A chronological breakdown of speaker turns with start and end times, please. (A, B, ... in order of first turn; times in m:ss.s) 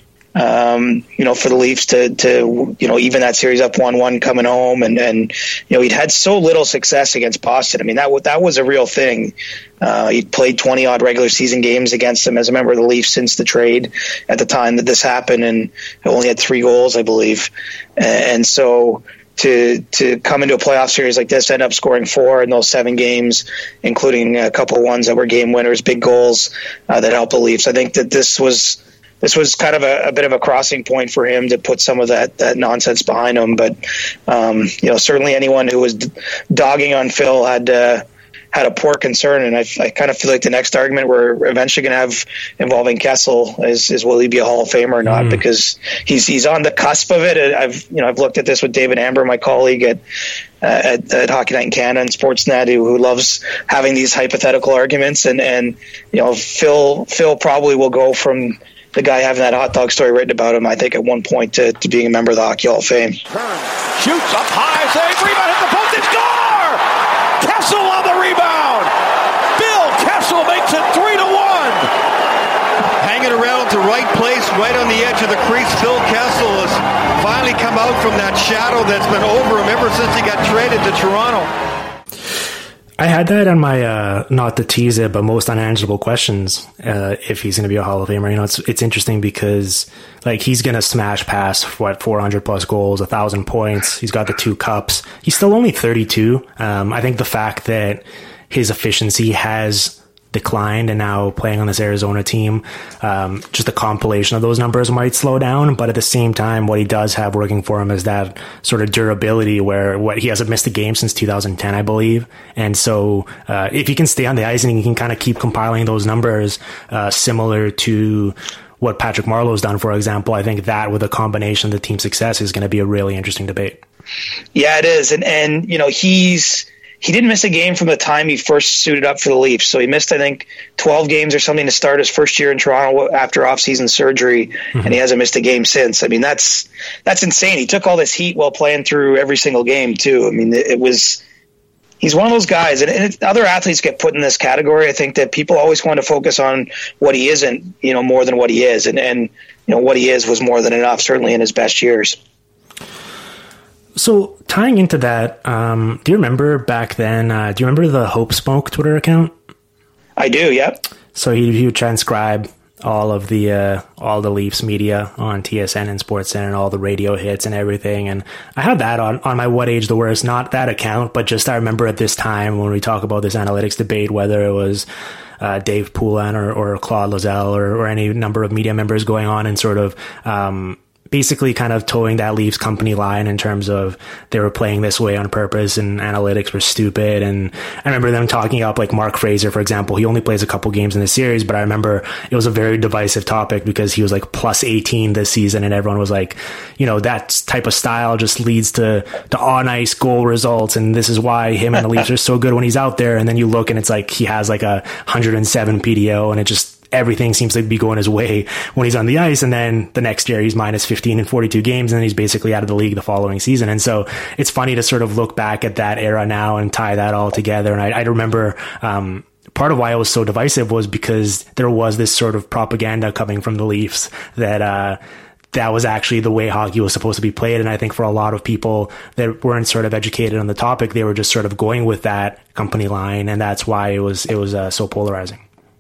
0:00.4-0:50.0 A
0:45.1-0:45.4 B
0:50.6-1:03.2 A
1:03.3-1:06.8 C
1:07.4-1:08.9 C
1:09.6-1:11.9 C
1:13.0-1:21.5 C
1:23.0-2:03.8 B
2:04.6-2:21.2 A
2:22.0-2:32.2 A
2:34.0-2:39.3 B
2:40.2-2:40.8 A
2:41.2-2:54.9 B
2:55.4-3:45.0 B
3:45.5-3:55.4 B